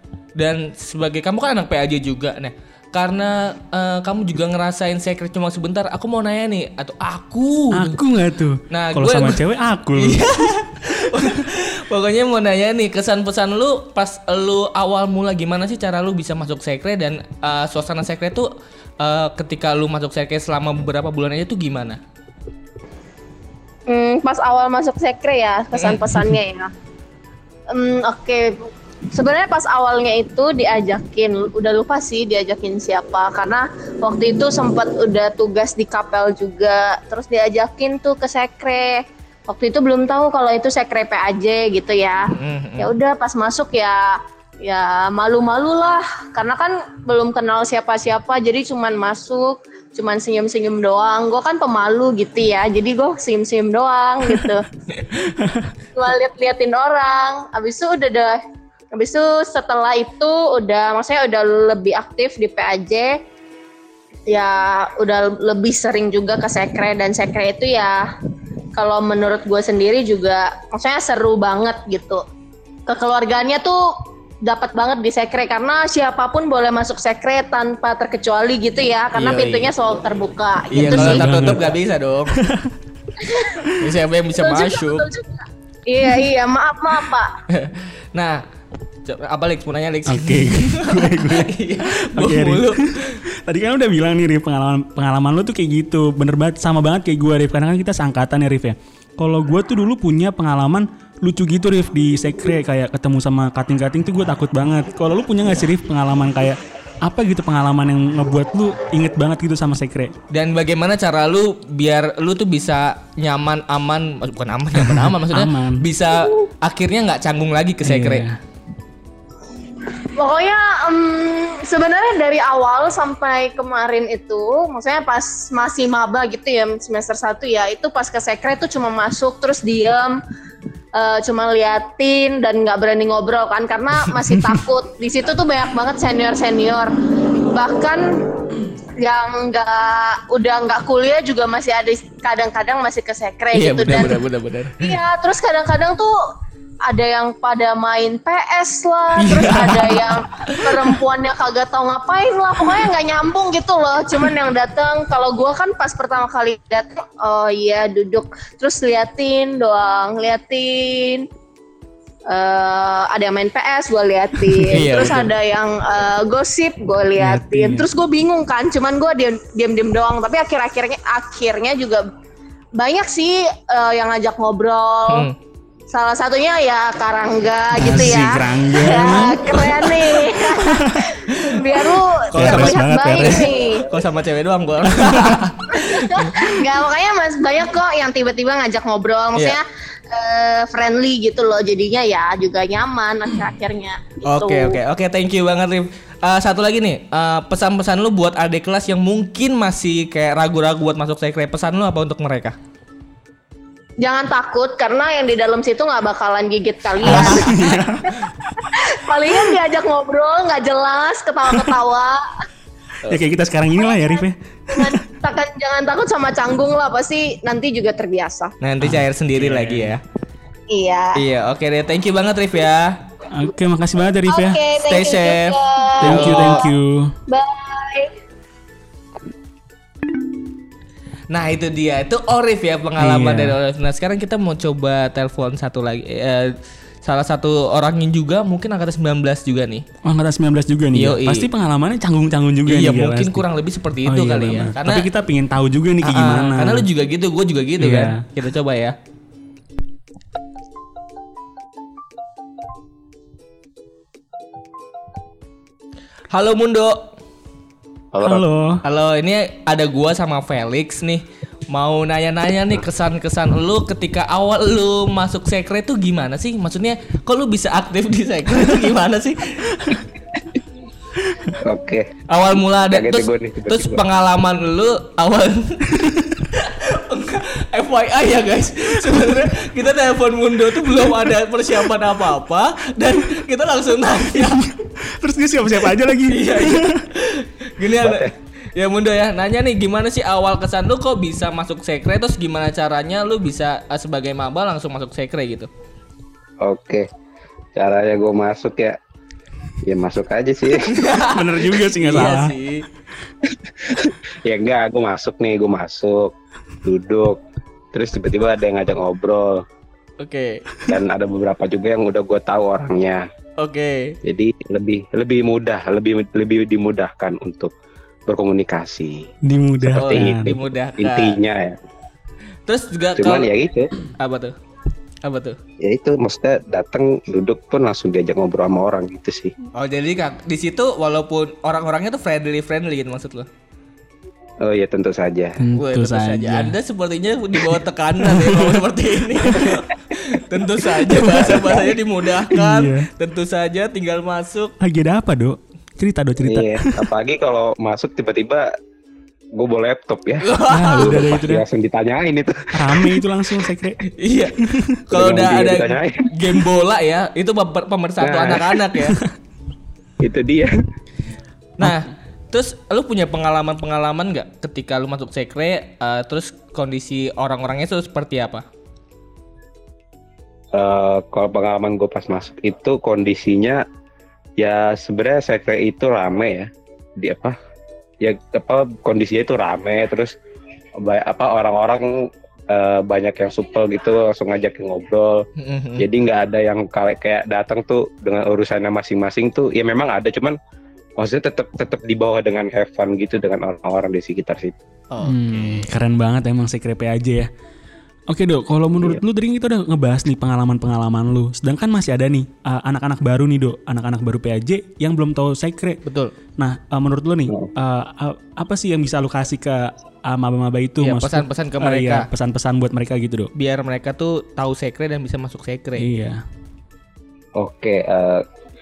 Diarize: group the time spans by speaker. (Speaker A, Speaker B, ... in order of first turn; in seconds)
Speaker A: 0.4-8.0, 8.7-9.4, 9.9-22.0, 25.7-26.2, 42.3-42.9, 54.9-55.2, 79.1-79.7, 80.7-82.3, 83.8-85.1, 87.5-88.4, 89.0-93.2, 110.3-118.2, 143.5-144.9, 149.2-151.0, 164.7-165.3, 175.1-175.3, 179.5-180.4, 181.2-186.6, 194.2-202.5, 207.0-207.9, 218.6-220.0, 221.1-223.0, 224.8-226.6, 231.3-239.8, 240.9-241.5, 242.7-245.1, 246.0-248.9, 256.3-257.1, 258.8-270.0, 272.3-275.9, 276.5-284.7, 286.3-295.7, 300.7-302.8, 310.2-310.6, 313.6-314.1, 320.0-321.4, 322.7-323.5, 324.2-324.5, 325.2-325.6, 329.7-333.5, 335.8-344.7, 350.4-351.3, 354.1-359.2, 361.8-368.6, 385.6-386.1, 395.1-395.8, 406.0-406.3, 411.0-412.2, 413.5-416.1
Speaker B: 7.7-10.3, 55.2-55.7, 80.7-81.7, 82.3-82.7, 90.1-92.8, 93.4-110.1, 114.8-115.8, 117.8-118.4, 167.2-167.9, 177.7-179.5, 180.5-181.0, 182.3-183.5, 185.0-185.4, 207.0-208.5, 213.1-215.0, 218.8-219.9, 223.3-224.6, 226.0-227.1, 233.0-233.6, 240.0-243.4, 244.0-246.9, 247.8-248.2, 258.2-258.8, 284.4-287.0, 301.2-302.5, 319.4-320.5, 335.6-336.7, 338.2-338.8, 339.4-339.8, 341.1-341.8, 342.5-343.1, 344.8-347.0, 350.7-351.6, 352.7-354.0, 359.0-359.2, 395.2-397.5, 398.3-406.0, 406.6-413.5, 416.0-416.4
Speaker C: 23.9-26.7, 27.7-54.6, 55.9-58.4, 58.9-63.2, 64.3-68.1, 68.8-72.2, 72.9-81.5, 83.2-83.5, 84.4-87.3, 120.1-130.2, 130.9-138.4, 139.0-144.2, 144.8-146.1, 146.8-161.3, 162.3-172.1, 172.8-175.3, 175.9-183.9, 185.7-194.8, 204.0-212.4, 213.8-218.5, 220.7-221.2, 224.2-226.7, 227.3-228.1
Speaker D: 258.1-258.4, 271.6-272.1, 272.9-274.0, 288.0-288.3, 296.6-297.1, 297.7-299.0, 299.8-301.0, 303.5-306.3, 306.8-307.4, 307.9-309.6, 310.9-313.3, 314.2-317.7, 318.3-319.3, 319.8-321.8, 323.2-323.9, 325.8-329.5, 334.6-335.6, 341.2-341.9, 346.4-348.7, 349.6-353.2, 355.1-356.3, 358.2-358.7, 360.2-360.7, 370.7-373.8, 374.6-377.5, 378.2-380.3, 381.0-385.4, 386.0-390.6, 391.2-394.7, 417.6-418.4